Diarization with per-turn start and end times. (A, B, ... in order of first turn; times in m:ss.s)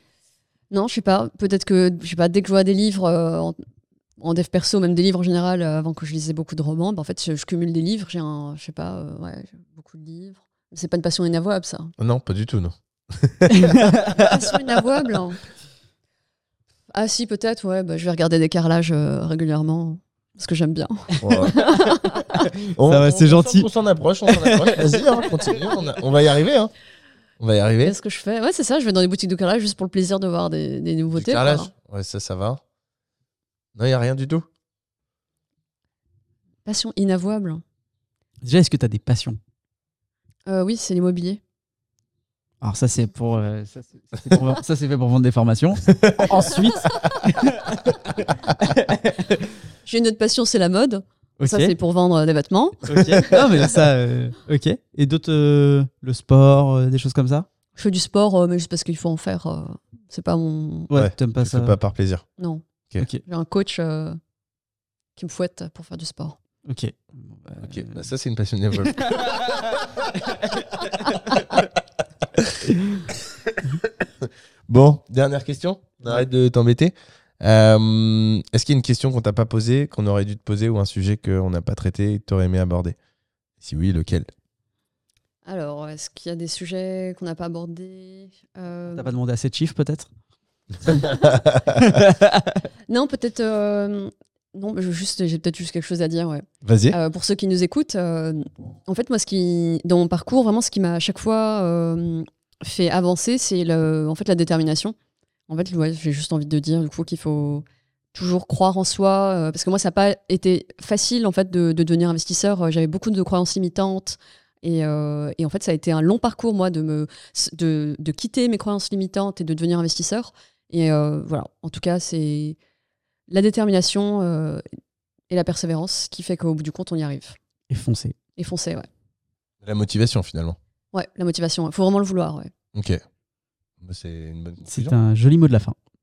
0:00.7-0:03.6 A
0:04.2-0:11.9 A
0:12.0-0:14.0 B
0:13.5-0:14.3 C
0:14.2-0:15.4 A
0:16.9-0:22.3 A
0:21.2-0:21.6 B
0:21.3-0:23.7 C
0:22.6-0:26.7 B
0:24.3-0:25.5 C
0:27.4-0:28.0 B
0:27.8-0:31.7 A
0:31.1-0:32.6 B
0:33.8-0:34.5 B
0:36.7-0:37.6 A
0:38.4-0:39.4 C
0:40.5-0:41.4 A
0:42.6-0:49.4 C
0:46.0-0:46.4 B
0:49.8-0:53.4 A
0:51.4-0:51.8 C
0:52.8-0:57.5 C
0:57.8-1:00.9 A
1:00.9-1:01.8 C
1:01.0-1:02.2 B
1:02.4-1:02.6 A
1:03.2-1:04.2 A
1:05.2-1:06.4 A
1:06.7-1:08.0 C
1:07.6-1:09.9 B
1:08.8-1:11.6 C
1:11.3-1:11.6 B
1:12.4-1:12.7 B
1:13.5-1:23.0 B
1:23.6-1:24.3 B
1:25.5-1:29.1 A
1:28.9-1:30.1 C
1:30.9-1:31.8 B
1:31.7-1:32.6 C
1:32.9-1:45.0 A
1:36.6-1:37.0 B
1:45.5-2:02.6 A
2:03.3-2:04.6 A
2:05.3-2:07.4 A
2:07.7-2:08.2 C
2:08.4-2:08.9 A
2:09.6-2:10.6 B
2:10.9-2:12.5 A
2:12.7-2:13.0 B
2:13.8-2:15.0 B
2:14.7-2:15.8 C